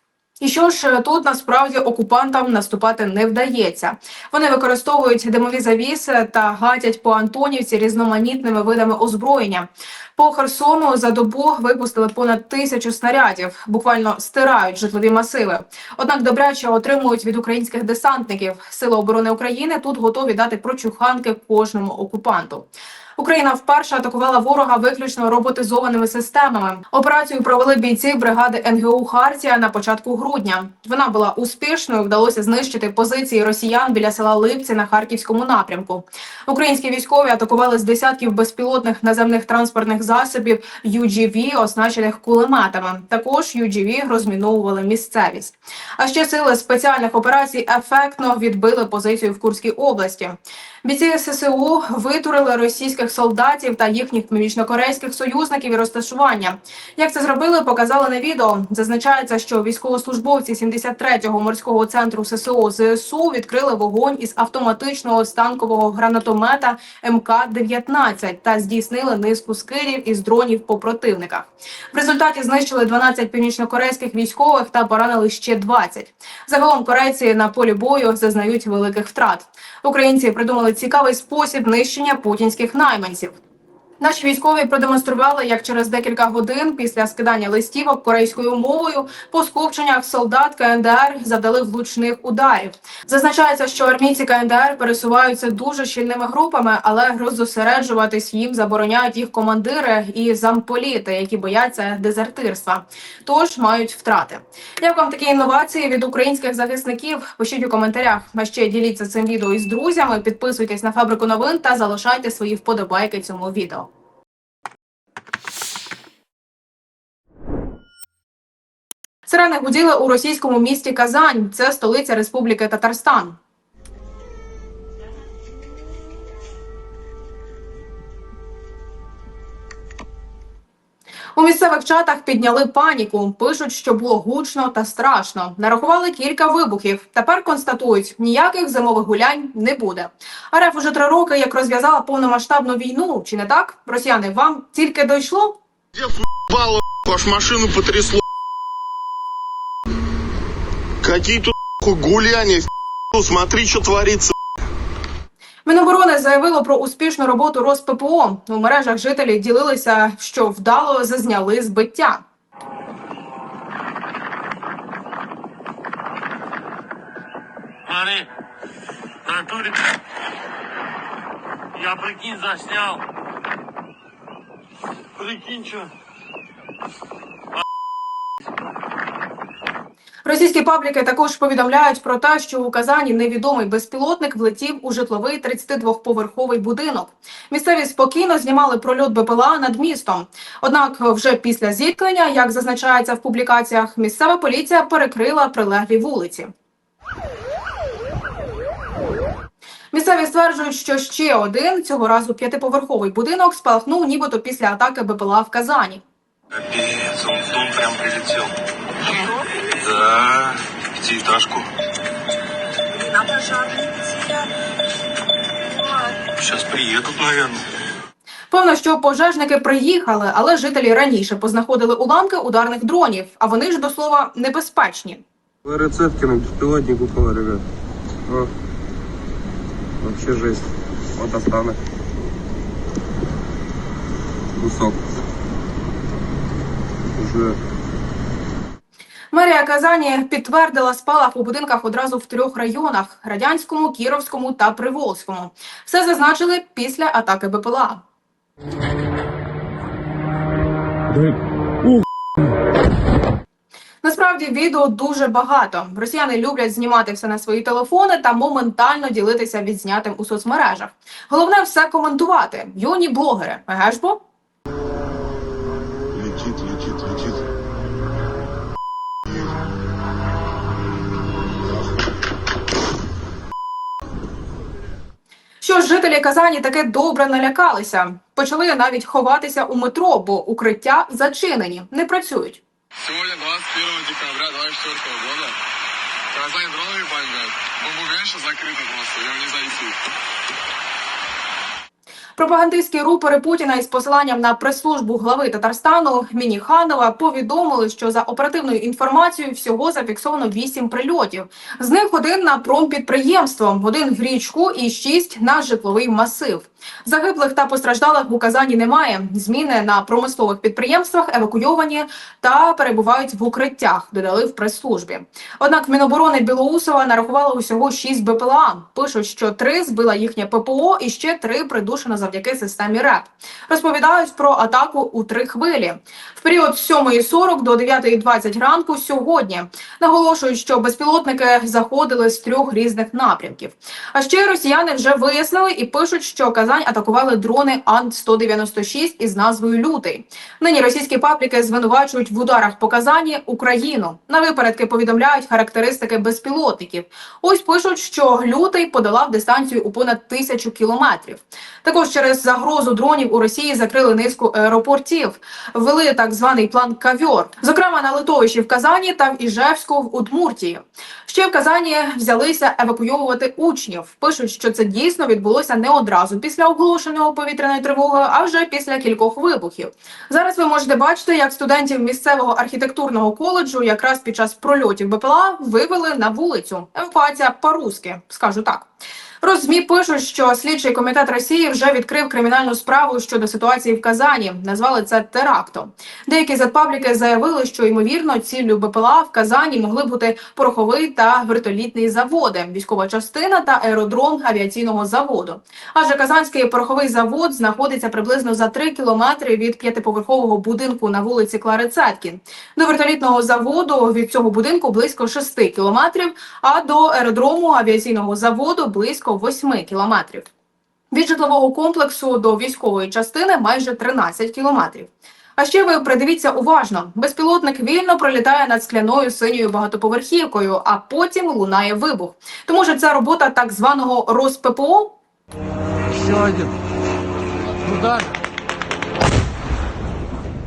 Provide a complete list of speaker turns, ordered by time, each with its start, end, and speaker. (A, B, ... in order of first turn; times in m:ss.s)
0:00.4-1:23.4 A
1:24.0-1:53.9 A
1:59.2-2:03.4 A
2:11.3-2:25.6 A
2:26.0-2:28.2 B
2:31.0-2:34.3 B
2:35.6-2:42.2 A
2:47.9-2:48.3 C
2:49.2-2:49.9 C
2:51.8-2:53.0 C
2:55.2-2:55.9 C
3:00.2-3:16.5 A
3:19.9-3:26.0 A
3:26.7-3:28.5 D
3:29.8-3:31.7 D
3:36.4-3:37.6 D
3:38.5-3:45.2 A
3:45.6-3:47.6 E
3:48.2-3:48.5 E
3:50.0-3:51.8 E
3:54.6-3:55.0 E
3:57.1-3:57.6 E
3:59.3-4:08.0 A
4:14.0-4:24.2 A
4:26.1-4:27.4 B
4:35.6-4:42.6 A
4:43.0-4:45.4 F
4:43.4-4:44.9 D
4:46.3-4:48.4 F
4:46.4-4:49.5 D
4:49.1-4:49.8 F
4:52.4-6:18.9 A
6:19.4-6:50.5 A
6:51.1-7:05.1 A